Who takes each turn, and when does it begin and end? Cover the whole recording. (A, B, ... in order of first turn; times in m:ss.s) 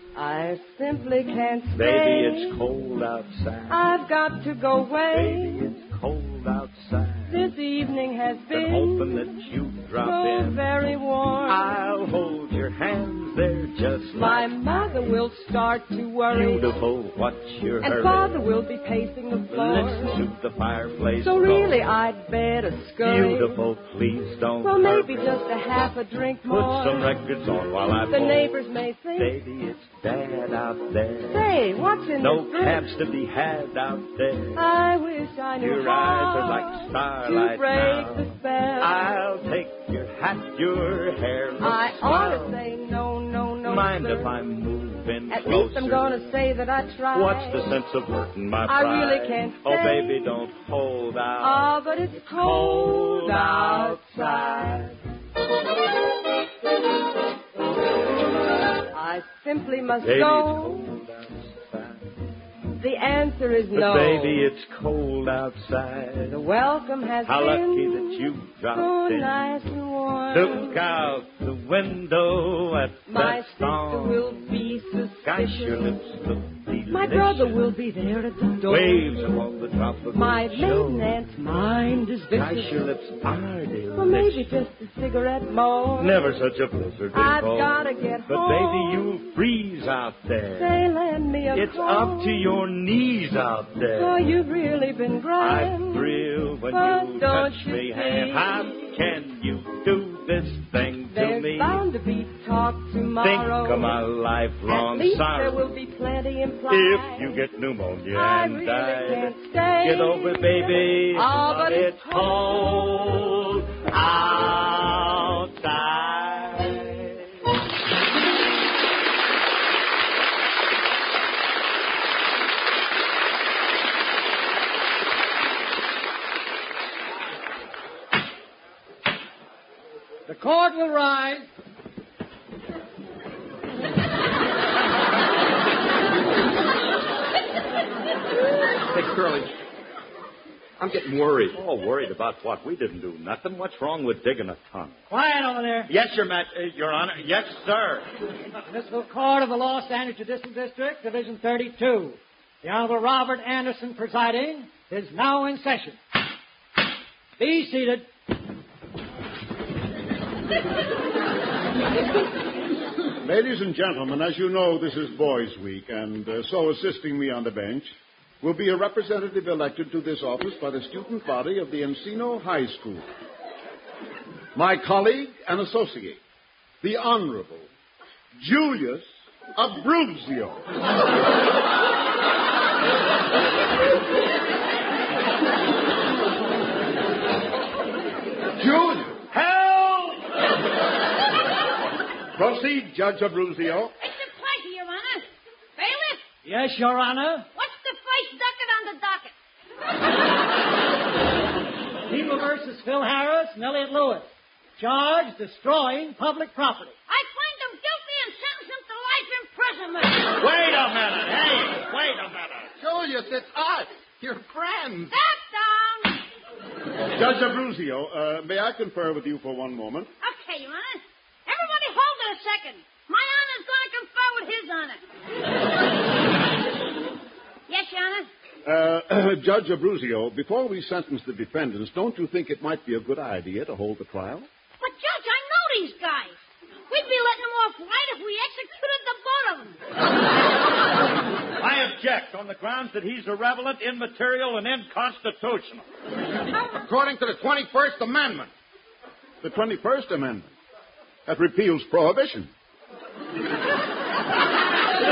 0:00.1-0:02.6 A
0:01.7-0:03.8 B
0:03.7-0:05.6 A
0:05.1-0:07.5 B
0:07.3-0:09.3 A
0:08.5-0:10.6 B
0:10.0-0:11.6 A
0:11.5-0:14.5 B
0:14.1-0:16.7 A
0:16.3-0:18.4 B
0:17.8-0:20.2 A
0:19.5-0:21.8 B
0:21.2-0:23.6 A
0:23.0-0:25.3 B
0:24.6-0:27.1 A
0:26.4-0:28.6 B
0:28.1-0:29.4 A
0:29.2-0:31.5 B
0:31.3-0:32.8 A
0:32.2-0:34.7 B
0:34.5-0:39.0 A
0:35.6-0:42.6 B
0:41.6-0:44.3 A
0:43.6-0:46.3 B
0:45.3-0:47.6 A
0:47.1-0:54.9 B
0:48.6-0:50.1 A
0:51.4-0:55.0 A
0:58.9-1:00.8 A
1:00.0-1:02.1 B
1:02.8-1:04.5 A
1:03.7-1:06.4 B
1:06.3-1:10.8 A
1:07.2-1:09.4 B
1:10.3-1:14.6 B
1:13.1-1:15.9 A
1:15.2-1:17.6 B
1:16.9-1:19.1 A
1:18.6-1:21.2 B
1:20.1-1:22.8 A
1:22.3-1:24.5 B
1:23.9-1:26.3 A
1:26.0-1:30.8 B
1:27.1-1:29.2 A
1:30.6-1:32.4 A
1:31.5-1:34.2 B
1:33.9-1:38.8 A
1:35.4-1:41.8 B
1:41.1-1:44.0 A
1:43.2-1:45.6 B
1:44.6-1:47.4 A
1:46.7-1:57.3 B
1:48.1-1:53.2 A
2:10.3-2:11.5 C
2:18.9-2:19.5 D
2:20.8-2:21.6 D
2:21.5-2:25.0 B
2:25.1-2:25.9 C
2:25.9-2:28.1 B
2:28.7-2:36.0 C
2:37.4-2:38.1 C
2:43.2-2:53.0 E
2:54.5-2:56.2 E
2:56.8-2:57.7 E
2:58.4-3:00.6 E
3:08.6-3:09.2 E
3:09.3-3:10.2 B
3:12.3-3:13.9 E
3:14.0-3:16.2 F
3:16.4-3:17.5 C
3:17.5-3:19.3 F
3:22.1-3:26.9 C
3:27.1-3:30.3 F
3:30.4-3:32.7 B
3:32.8-3:35.1 D
3:35.1-3:36.2 F
3:37.1-3:40.1 E
3:40.2-3:45.0 F
3:47.7-3:48.3 F
3:48.6-3:54.5 E
3:54.8-3:56.3 F
3:56.9-3:59.8 F
4:01.6-4:05.8 B
4:06.7-4:08.5 D
4:09.4-4:10.5 E
4:11.2-4:12.5 E